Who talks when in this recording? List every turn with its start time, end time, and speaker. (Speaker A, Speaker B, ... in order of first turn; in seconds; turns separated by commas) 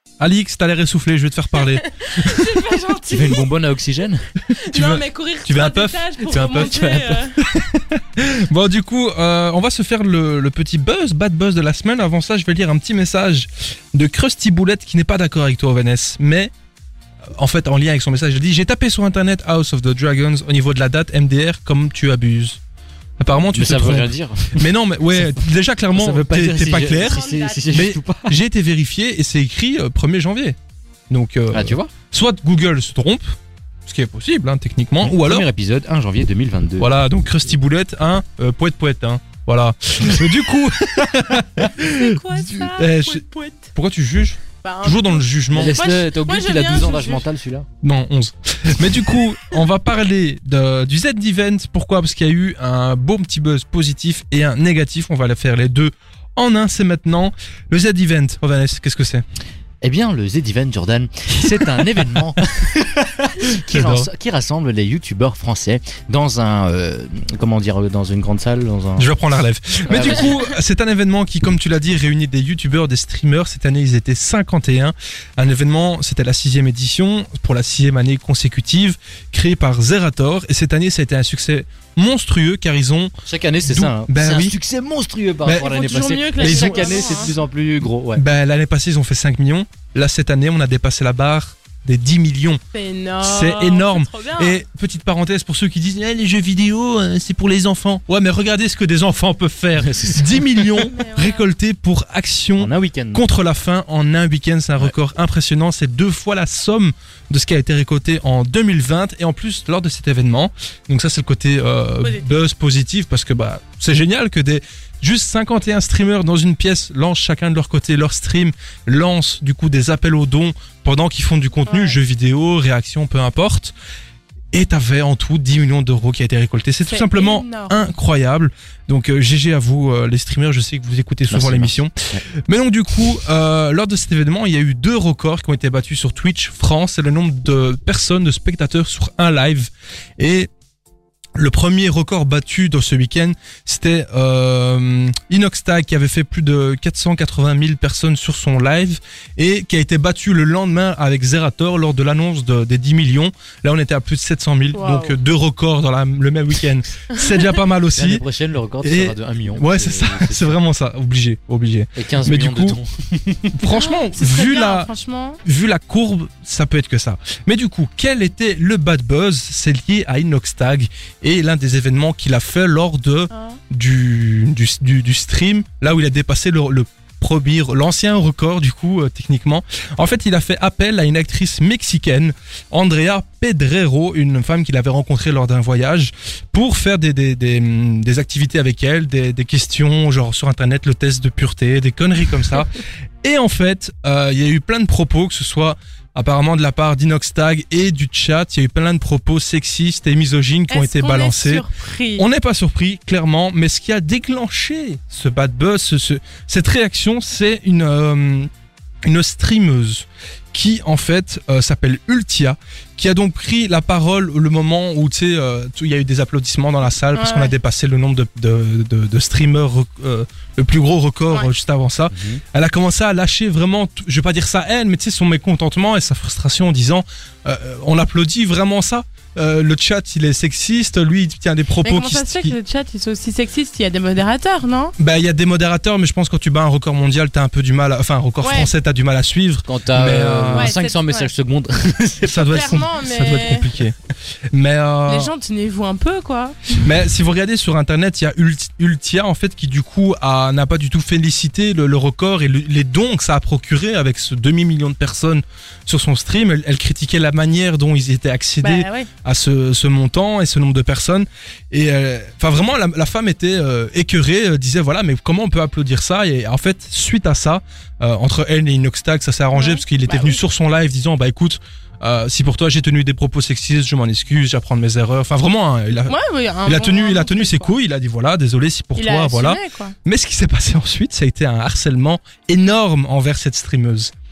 Speaker A: 0.2-2.8, Speaker B: 1.8-3.4, Speaker C: 3.1-4.2, Speaker B: 4.5-7.4, Speaker A: 4.7-6.8, Speaker C: 6.5-7.1, Speaker A: 7.4-16.5, Speaker A: 17.4-22.6, Speaker A: 23.2-30.6, Speaker C: 23.5-25.4, Speaker C: 25.9-28.4, Speaker B: 26.9-27.8, Speaker A: 31.1-33.3, Speaker C: 31.5-31.9, Speaker A: 33.9-35.5, Speaker C: 35.0-36.9, Speaker A: 36.8-43.2, Speaker B: 41.8-43.7, Speaker A: 43.7-45.9, Speaker B: 44.6-47.2, Speaker C: 45.5-47.7, Speaker A: 47.8-59.2, Speaker C: 59.8-69.2, Speaker A: 61.5-62.1, Speaker A: 63.7-64.1, Speaker A: 69.0-83.1, Speaker C: 69.9-70.3, Speaker C: 83.3-88.2, Speaker A: 83.6-84.6, Speaker A: 85.4-85.7, Speaker B: 85.6-87.3, Speaker A: 86.4-87.3, Speaker A: 88.1-92.6, Speaker B: 92.7-94.6, Speaker A: 93.2-123.8, Speaker C: 99.8-100.6, Speaker B: 100.8-101.5, Speaker C: 102.6-103.3, Speaker B: 112.0-112.3, Speaker B: 121.7-122.0, Speaker A: 124.5-131.9, Speaker B: 126.9-127.8, Speaker C: 131.3-132.2, Speaker A: 132.5-140.5, Speaker A: 141.4-158.2, Speaker B: 154.7-155.2, Speaker C: 157.9-160.6, Speaker A: 158.8-162.8, Speaker C: 162.0-163.6, Speaker A: 163.6-164.9, Speaker B: 163.7-165.4, Speaker A: 165.4-201.7, Speaker B: 173.3-173.6, Speaker B: 200.7-202.3, Speaker A: 202.2-208.5, Speaker A: 209.1-232.6, Speaker B: 217.1-217.5, Speaker C: 222.1-222.4, Speaker B: 231.8-234.9, Speaker A: 235.0-240.7, Speaker B: 238.4-238.7, Speaker C: 239.7-242.6, Speaker B: 240.5-241.3, Speaker A: 242.2-244.0, Speaker B: 242.4-243.7, Speaker A: 244.5-245.3, Speaker B: 245.1-246.8, Speaker A: 246.8-276.1, Speaker B: 258.6-259.1, Speaker B: 269.5-270.4, Speaker B: 276.1-277.7, Speaker A: 276.7-284.1, Speaker B: 279.0-279.9